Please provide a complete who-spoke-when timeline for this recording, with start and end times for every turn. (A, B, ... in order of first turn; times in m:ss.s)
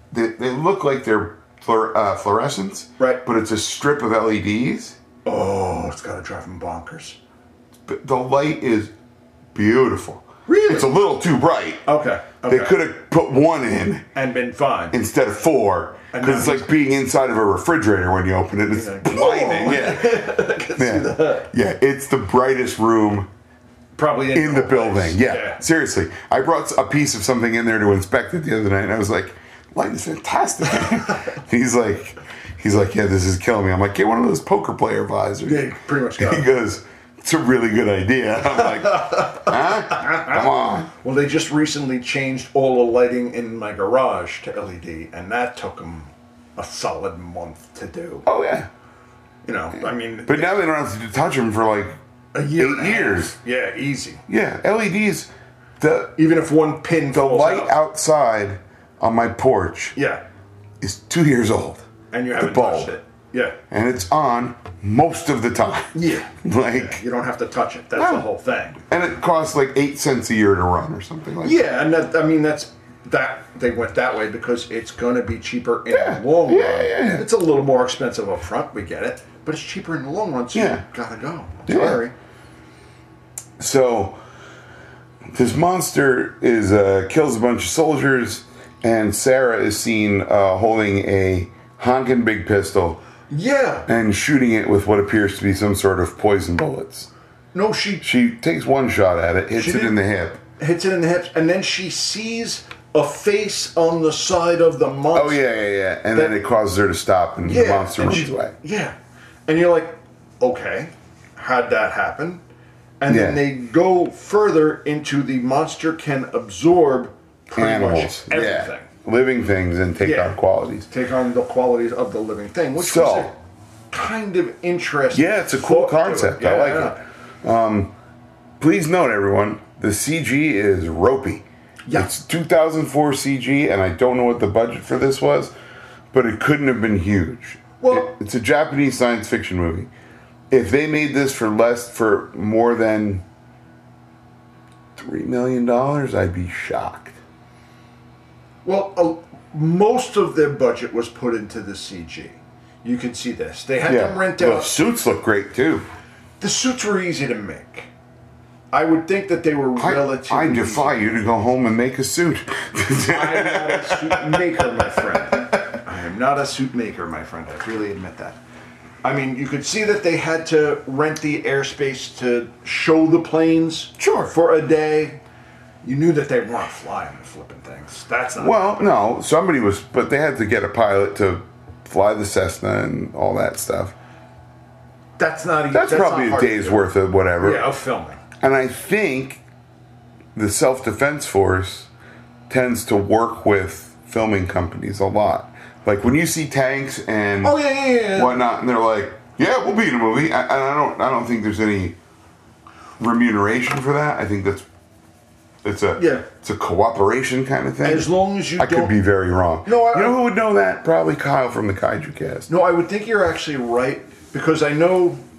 0:00.1-0:05.0 A
0:05.2-0:07.2 B
0:07.9-0:08.9 A
0:09.5-0:11.8 A
0:10.5-0:10.9 B
0:11.8-0:12.8 B
0:12.4-0:14.0 A
0:14.1-0:14.9 B
0:14.9-0:23.3 A
0:16.1-0:16.7 B
0:18.7-0:21.5 B
0:24.0-0:25.6 B
0:24.3-0:40.9 A
0:35.4-0:36.5 B
0:38.6-0:48.2 B
0:48.2-0:48.7 A
0:49.4-0:50.6 B
0:50.2-0:52.0 A
0:52.3-0:54.2 B
0:52.5-0:53.3 A
0:54.3-0:56.2 A
0:56.2-0:57.8 B
0:57.1-0:59.9 A
0:59.9-1:00.2 B
1:00.8-1:01.8 A
1:02.1-1:03.6 B
1:02.4-1:02.9 A
1:03.7-1:07.0 A
1:05.9-1:08.8 B
1:08.0-1:08.2 A
1:08.9-1:11.7 A
1:11.4-1:22.1 B
1:15.9-1:17.2 A
1:20.5-1:20.8 A
1:21.7-1:22.0 A
1:23.6-1:24.2 A
1:25.3-1:33.0 A
1:33.3-1:33.9 B
1:33.9-1:37.1 A
1:37.5-1:38.0 B
1:38.0-1:40.4 A
1:39.6-1:40.0 B
1:40.6-1:45.4 B
1:45.1-1:48.5 A
1:47.4-1:48.9 B
1:49.5-1:52.4 B
1:53.0-1:58.9 B
1:53.1-1:53.4 A
1:57.5-2:00.9 A
2:00.0-2:00.4 B
2:00.9-2:03.4 B
2:02.8-2:03.3 A
2:03.9-2:07.0 B
2:05.1-2:07.9 A
2:08.6-2:15.5 A
2:11.8-2:12.1 B
2:16.1-2:19.9 A
2:17.8-2:18.1 B
2:20.5-2:23.2 A
2:25.0-2:27.2 A
2:28.6-2:34.8 B
2:33.8-2:35.8 A
2:36.4-2:37.9 B
2:38.7-2:41.2 B
2:39.8-2:45.6 A
2:43.1-2:48.4 B
2:49.0-2:55.2 B
2:54.0-2:54.3 A
2:55.8-2:58.6 B
2:58.4-3:03.9 A
3:05.2-3:06.8 B
3:05.7-3:07.6 A
3:07.4-3:08.2 B
3:08.4-3:09.4 A
3:10.3-3:11.9 A
3:12.5-3:17.6 A
3:17.4-3:18.4 B
3:18.1-3:22.0 A
3:23.0-3:24.6 A
3:25.6-3:32.5 A
3:26.0-3:26.2 B
3:27.8-3:28.9 B
3:29.6-3:30.2 B
3:32.5-3:35.2 B